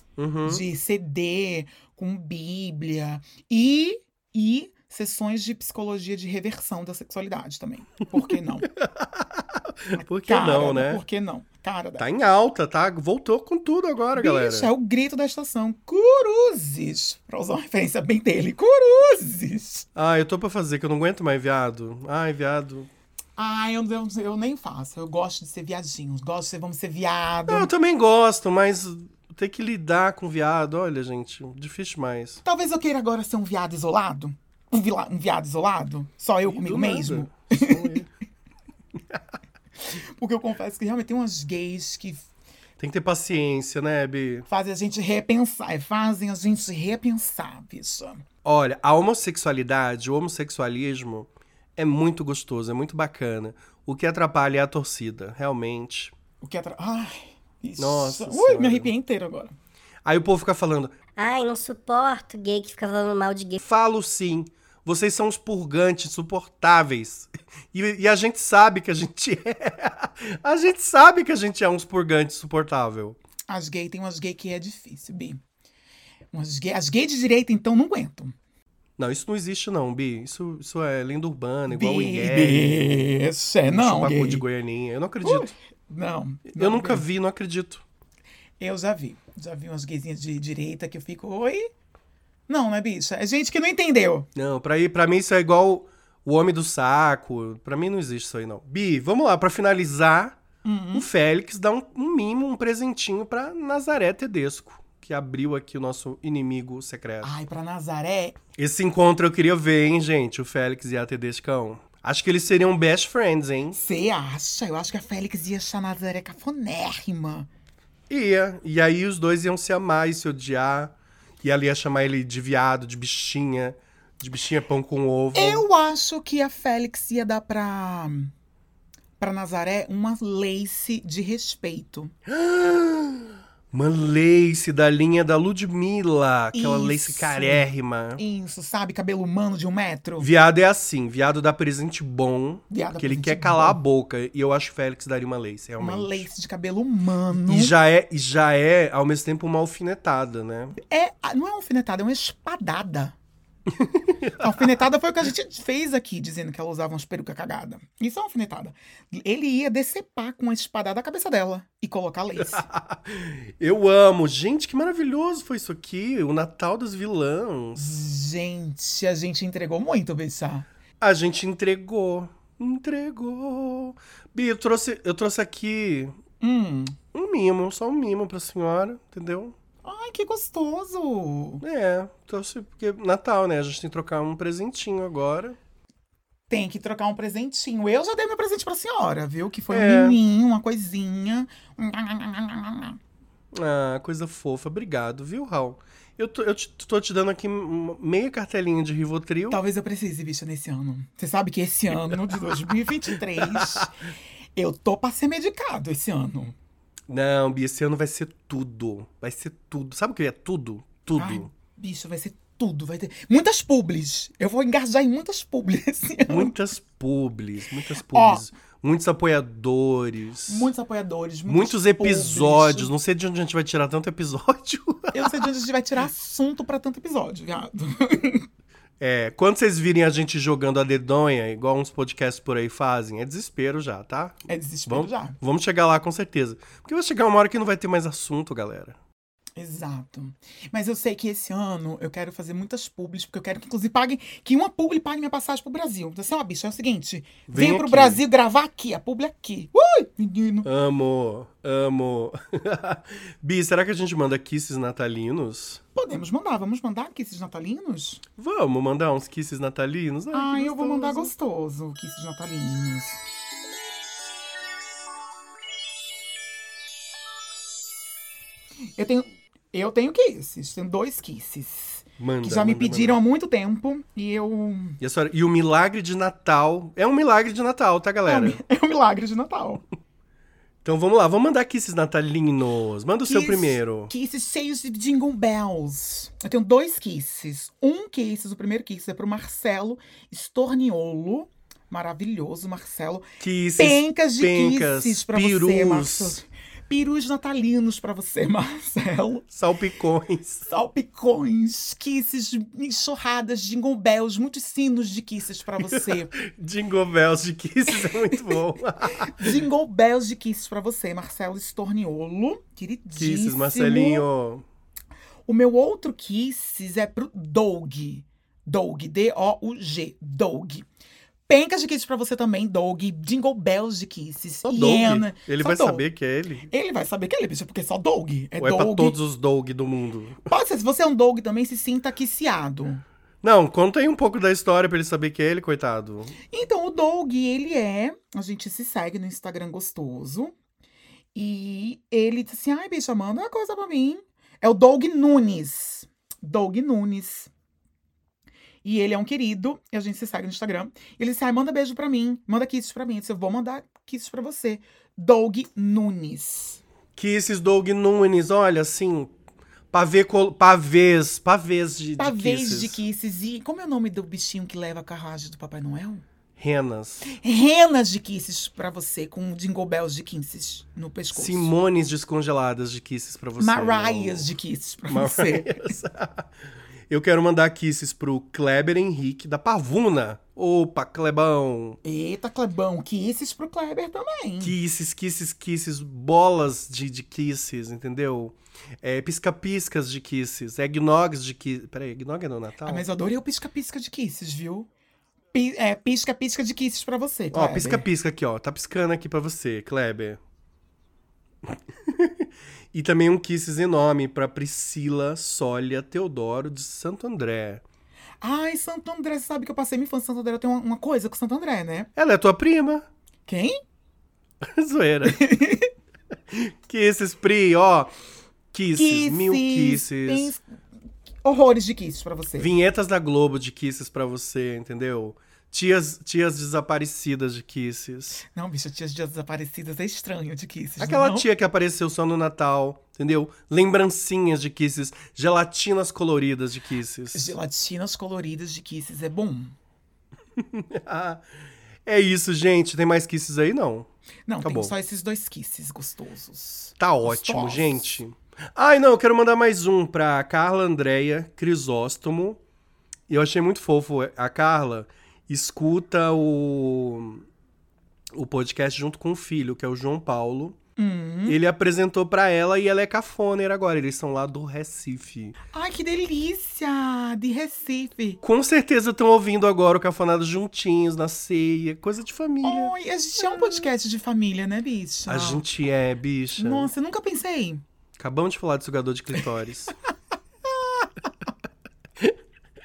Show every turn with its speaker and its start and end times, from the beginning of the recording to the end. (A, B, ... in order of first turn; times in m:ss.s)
0:00.2-0:00.6 A
0:00.4-0:08.7 B
0:08.7-0:11.0 A
0:09.9-0:12.0 B
0:12.0-0:14.7 A
0:14.1-0:19.9 B
0:20.0-0:22.9 A
0:23.4-0:27.7 B
0:27.5-0:32.4 A
0:32.4-0:37.9 B
0:36.4-0:38.1 A
0:39.8-0:42.3 B
0:42.8-0:44.4 A
0:44.5-0:48.2 B
0:48.4-0:56.1 A
0:56.4-0:59.6 B
0:57.8-0:58.9 A
1:00.0-1:00.9 A
1:01.2-1:03.6 C
1:03.6-1:13.2 A
1:13.5-1:15.4 B
1:16.3-1:18.3 B
1:19.0-1:22.9 A
1:21.7-1:24.4 B
1:23.7-1:25.5 A
1:25.2-1:27.0 B
1:26.5-1:27.8 A
1:28.6-1:31.7 B
1:32.5-1:34.3 B
1:34.3-1:40.4 A
1:40.6-1:41.1 B
1:40.9-1:47.3 A
1:47.2-1:48.4 B
1:48.6-1:53.8 A
1:53.7-1:57.5 B
1:58.1-2:05.6 A
2:05.3-2:08.3 B
2:09.2-2:12.1 B
2:12.2-2:18.2 A
2:16.5-2:20.3 B
2:20.2-2:26.2 A
2:22.7-2:23.8 B
2:25.8-2:27.7 B
2:27.3-2:30.8 A
2:30.8-2:33.1 B
2:33.7-2:34.7 A
2:34.4-2:42.6 B
2:42.4-2:47.8 A
2:47.8-2:50.7 B
2:51.0-2:56.2 A
2:56.4-2:57.0 B
2:57.1-2:59.6 A
2:59.8-3:01.6 B
3:01.6-3:05.6 A
3:06.5-3:13.0 B
3:09.7-3:10.2 A
3:13.5-3:19.6 A
3:19.5-3:24.0 B
3:23.4-3:23.9 A
3:24.6-3:26.5 B
3:27.1-3:31.5 A
3:31.2-3:36.5 B
3:36.3-3:40.7 A
3:38.0-3:38.4 B
3:40.5-3:42.9 B
3:41.5-3:45.5 A
3:45.1-3:48.5 B
3:49.0-3:59.0 A
3:54.5-3:55.4 B
3:59.6-4:10.7 B
4:07.5-4:08.2 A
4:10.6-4:15.8 A
4:15.9-4:18.2 B
4:18.4-4:21.3 A
4:20.3-4:23.2 B
4:29.0-4:35.0 B
4:32.2-4:33.2 A
4:35.0-4:38.6 A
4:38.2-4:39.8 B
4:40.8-4:44.1 A
4:43.2-4:53.3 B
4:53.4-4:56.4 A
4:53.8-4:59.5 B
4:59.5-5:00.6 A
5:00.7-5:06.3 B
5:05.8-5:09.6 A
5:09.1-5:14.3 B
5:13.2-5:14.6 A
5:15.5-5:20.8 B
5:21.5-5:26.0 B
5:24.7-5:26.7 A
5:26.7-5:29.2 B
5:28.6-5:30.5 A
5:30.5-5:33.0 B
5:33.4-5:36.3 A
5:36.5-5:40.5 B
5:41.3-5:47.5 B
5:48.8-5:56.8 B
5:57.2-5:59.3 A
5:59.9-6:03.0 A
6:02.2-6:06.2 B
6:06.6-6:07.3 A
6:07.2-6:11.7 B
6:11.3-6:14.5 A
6:13.6-6:16.0 B
6:15.1-6:16.5 A
6:17.1-6:22.0 A
6:22.0-6:24.7 B
6:24.6-6:33.0 A
6:32.8-6:34.9 B
6:35.5-6:38.0 B
6:37.5-6:40.4 A
6:42.0-6:47.8 A
6:48.4-6:52.1 B
6:52.2-6:53.0 A
6:53.5-6:53.8 B
6:54.6-6:55.4 A
6:55.2-6:55.9 B
6:56.5-6:58.1 A
6:58.7-7:00.5 A
6:58.9-7:00.6 B
7:01.4-7:02.7 B
7:02.6-7:08.4 A
7:08.4-7:11.4 B
7:11.0-7:17.5 A
7:17.3-7:19.8 B
7:20.6-7:21.4 A
7:22.0-7:24.1 A
7:24.5-7:28.0 B
7:24.6-7:24.9 A
7:27.0-7:32.6 A
7:33.3-7:37.4 A
7:38.3-7:40.8 A
7:41.0-7:41.6 B
7:41.5-7:45.6 A
7:45.7-7:48.4 B
7:48.4-7:53.9 A
7:52.6-7:55.6 B
7:55.3-7:56.9 A
7:56.6-7:57.8 B
7:58.2-7:59.9 A